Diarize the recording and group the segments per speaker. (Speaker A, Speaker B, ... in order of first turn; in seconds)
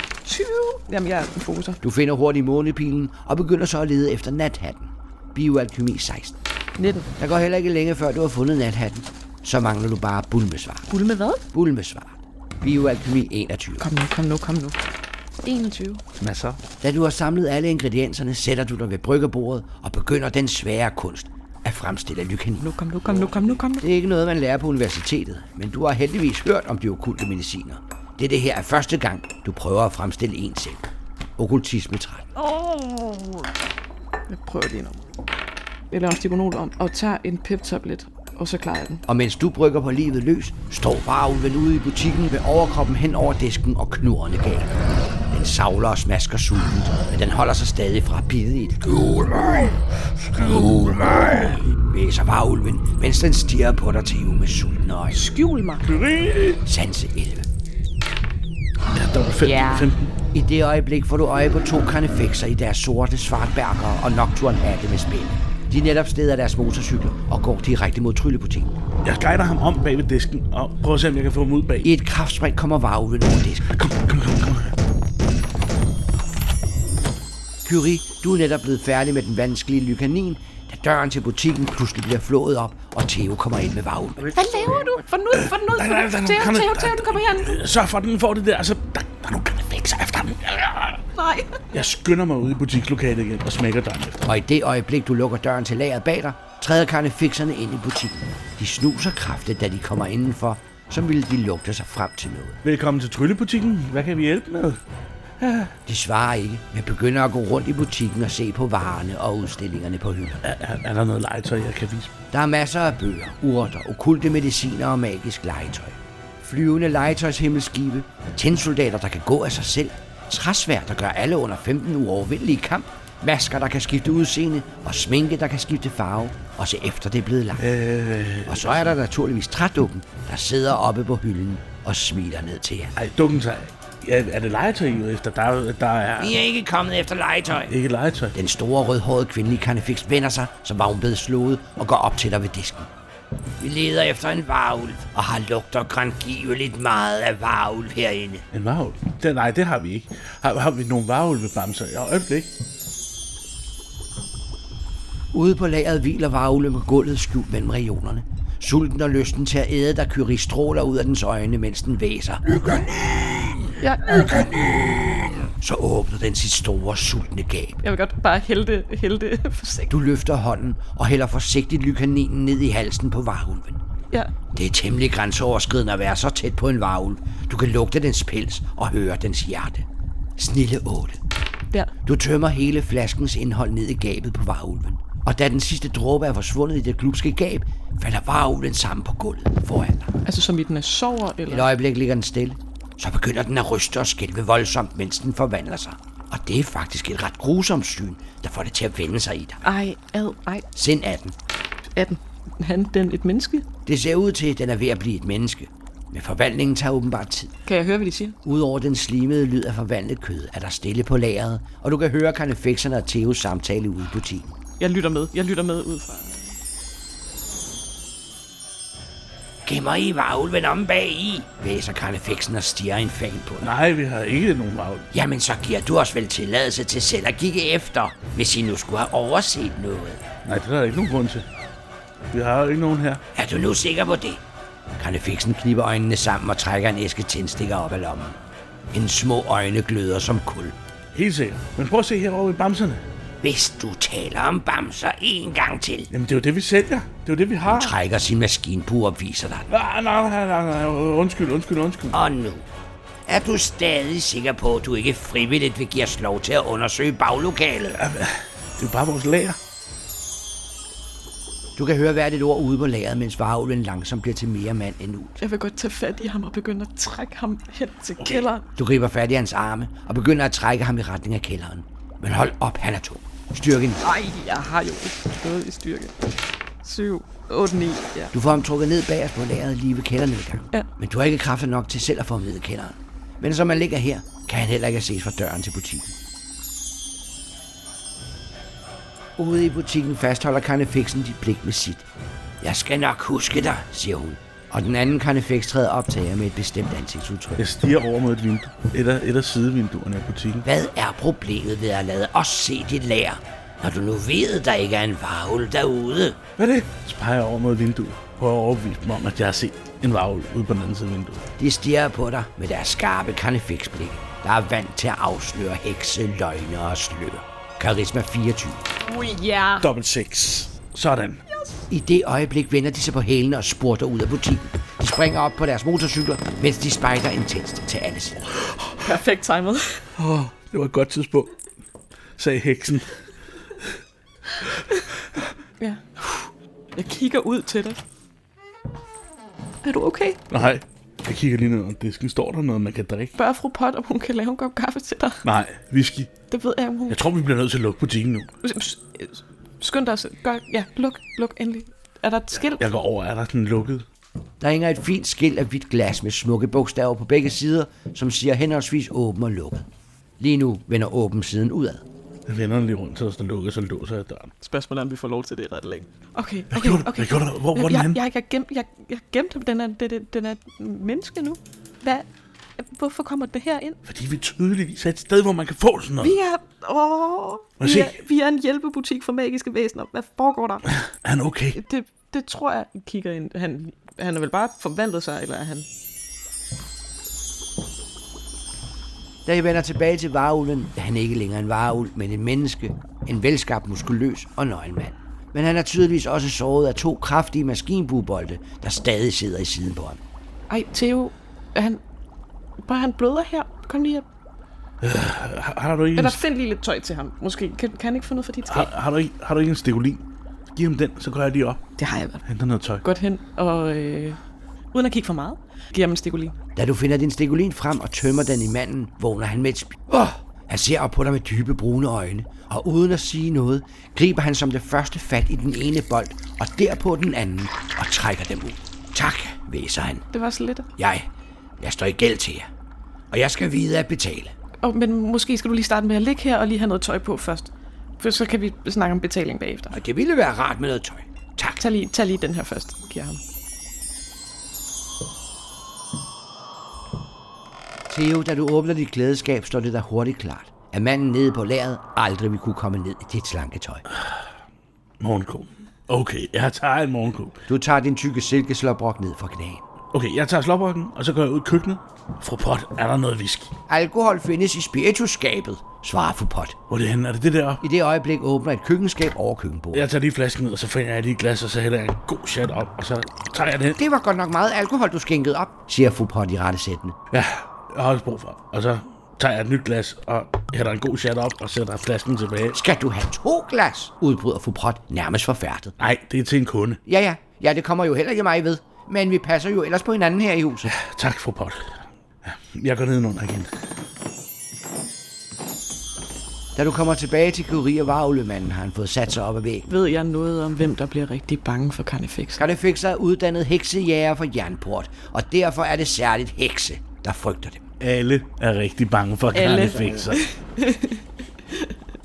Speaker A: 0.2-1.8, 6.8-7.1, 10.9-11.4, 13.8-14.8, 15.4-16.0, 22.6-23.9, 32.4-33.5, 34.3-35.0, 35.9-39.0, 55.1-55.9, 59.5-59.9, 84.3-87.6, 91.2-91.7, 163.8-164.5, 167.8-169.9, 190.2-191.7, 199.7-200.7, 201.9-203.7, 207.7-208.4, 214.8-216.5, 265.4-268.7, 274.0-276.2, 276.8-278.3, 319.0-319.9, 329.0-330.1, 335.8-338.0, 339.8-340.4, 343.4-345.4, 346.5-347.2, 348.6-352.9, 364.6-372.3, 372.8-374.0, 376.2-380.9, 381.8-385.9, 400.7-402.0, 402.8-404.2, 406.2-408.9, 412.0-412.4, 413.0-414.4, 414.9-416.6, 430.3-430.9, 434.8-440.0, 441.8-443.4, 499.9-502.6, 509.5-511.2
Speaker B: 1.8-6.4, 7.2-10.9, 11.5-13.9, 16.8-22.7, 23.8-30.9, 31.4-32.3, 39.1-44.8, 45.3-49.5, 50.4-55.2, 56.6-57.5, 60.3-68.8, 71.8-73.7, 77.6-84.4, 94.2-102.6, 105.9-110.4, 112.3-127.7, 128.5-132.9, 136.2-137.7, 138.3-142.9, 143.6-148.4, 155.3-167.8, 169.9-173.8, 174.5-179.9, 180.4-181.2, 182.0-190.1, 191.5-199.7, 200.7-201.3, 203.9-207.5, 208.4-214.6, 219.7-223.7, 225.1-230.2, 233.3-234.4, 235.0-238.4, 238.9-240.8, 243.4-246.1, 247.7-249.7, 252.1-252.7, 253.3-258.0, 261.8-265.4, 268.8-274.0, 278.3-286.1, 289.4-292.1, 292.6-297.6, 300.6-306.4, 311.6-318.8, 321.9-328.5, 354.6-359.9, 360.4-362.0, 389.5-400.2, 416.8-430.3, 431.0-431.3, 431.8-432.7, 433.3-434.5, 439.9-441.8, 448.1-454.1, 457.7-459.8, 463.9-466.8, 467.8-470.1, 474.0-477.2, 482.7-485.9, 487.1-490.9, 496.8-499.9, 502.6-507.9
Speaker C: 16.2-16.6, 50.3-51.6, 55.8-56.6, 58.9-60.1, 69.0-71.9, 73.7-74.8, 85.3-91.0, 91.7-94.3, 102.6-104.8, 105.4-105.7, 110.4-112.1, 127.6-128.9, 133.0-136.4, 137.7-138.4, 148.5-152.5, 223.6-225.1, 230.4-231.5, 232.3-233.2, 241.1-243.0, 246.1-248.0, 249.7-252.2, 258.0-259.6, 297.6-300.7, 306.6-311.5, 319.8-321.4, 330.2-331.5, 332.4-333.2, 340.5-343.4, 345.4-346.3, 347.1-348.5, 352.8-354.1, 362.5-364.5, 366.7-368.2, 374.1-376.4, 377.8-378.2, 380.9-381.8, 405.0-406.4, 408.7-411.8, 412.4-413.0, 454.1-454.4, 455.2-457.6, 460.1-463.7, 466.9-467.8, 469.9-474.0, 477.3-482.8, 486.0-487.0, 490.9-493.7, 508.0-510.4